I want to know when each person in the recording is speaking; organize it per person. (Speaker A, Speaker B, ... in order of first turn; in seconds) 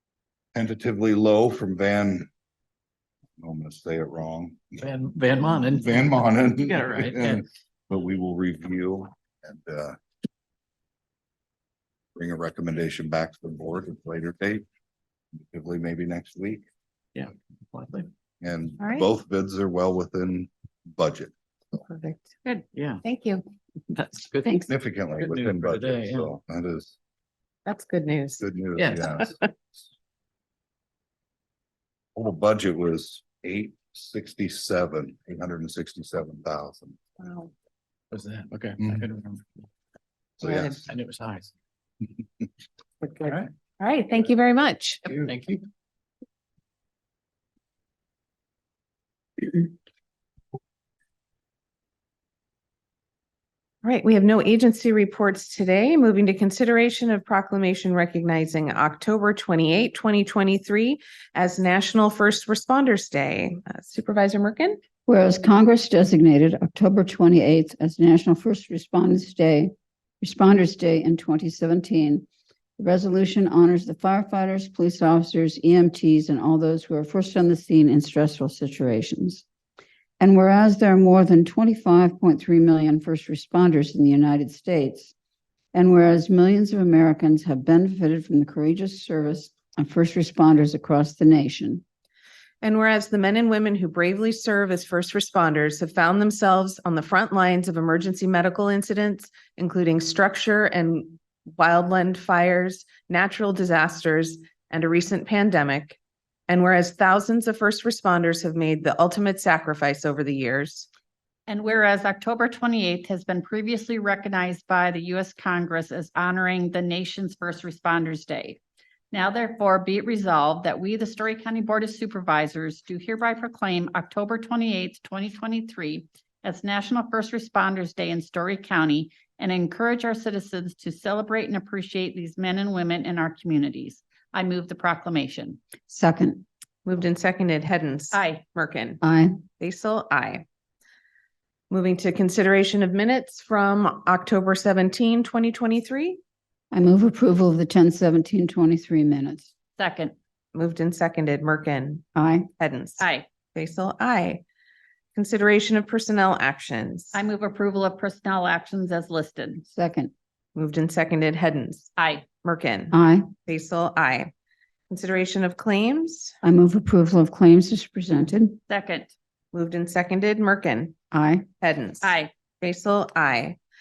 Speaker A: 0.6-2.3, 3.4-4.8, 5.5-9.9, 12.2-14.6, 15.5-16.6, 18.4-21.8, 24.7-26.9, 28.4-29.4, 32.1-37.0, 38.8-39.1, 40.4-40.8, 43.2-43.5, 45.0-45.4
Speaker B: 4.8-7.4, 17.1-18.1, 22.7-23.0, 23.9-26.3, 28.8-29.1, 38.1-39.5, 40.5-41.5, 45.2-45.6
Speaker C: 18.8-19.1, 21.9-22.4, 23.0-23.4, 27.6-28.4, 37.2-37.5, 43.8-45.1, 53.8-64.8, 92.6-110.9, 136.8-139.0, 139.6-140.4, 141.7-146.2, 150.6-152.1, 152.6-154.4, 155.2-157.2, 160.6-162.9, 163.4-164.3, 164.9-166.4, 169.5-170.9, 171.6-173.6
Speaker D: 65.0-72.3, 72.8-79.4, 80.2-85.1, 85.7-91.8, 135.9-136.4, 139.0-139.4, 146.7-149.5, 152.2-152.5, 159.7-160.1, 162.9-163.3, 166.4-168.6, 171.1-171.4
Speaker E: 111.5-118.6, 119.1-135.6, 138.1-138.4, 149.8-150.1, 153.0-153.2, 157.1-159.6, 162.0-162.2, 168.7-169.1, 172.0-172.3